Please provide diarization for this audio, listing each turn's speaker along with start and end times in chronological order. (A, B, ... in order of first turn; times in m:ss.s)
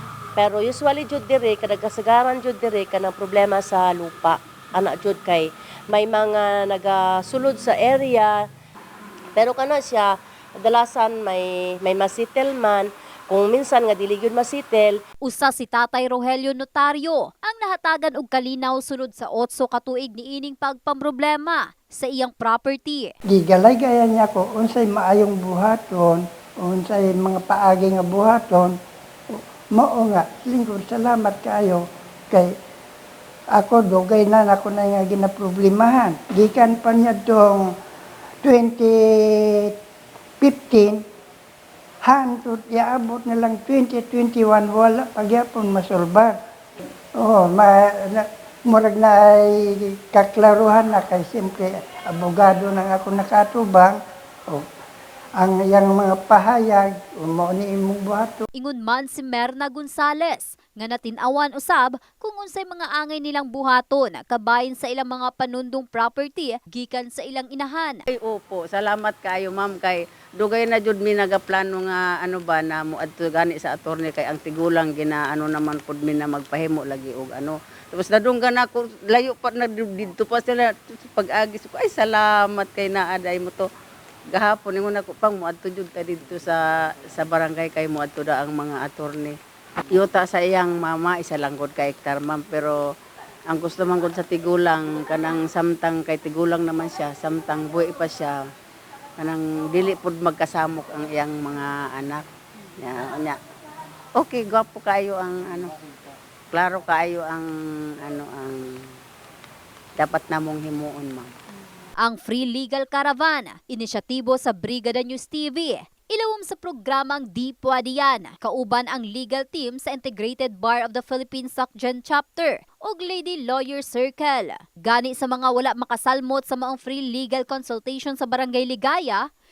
0:00.4-0:08.4 A
0:09.4-0:15.0 A
0:15.2-0:23.1 B
0:23.3-0:28.7 C
0:29.7-0:32.5 C
0:33.6-0:37.7 C
0:38.4-0:39.7 C
0:40.4-0:41.0 C
0:42.0-0:46.3 C
0:47.2-0:54.0 C
0:55.4-0:58.4 C
0:58.6-1:08.0 B
1:08.1-1:23.7 D
1:24.3-1:29.3 D
1:29.9-1:32.8 D
1:33.5-1:38.4 D
1:39.2-1:42.2 D
1:42.8-1:43.4 D
1:44.2-1:45.7 D
1:46.5-1:47.5 D
1:48.0-1:48.8 D
1:50.0-1:51.3 D
1:52.0-2:09.2 B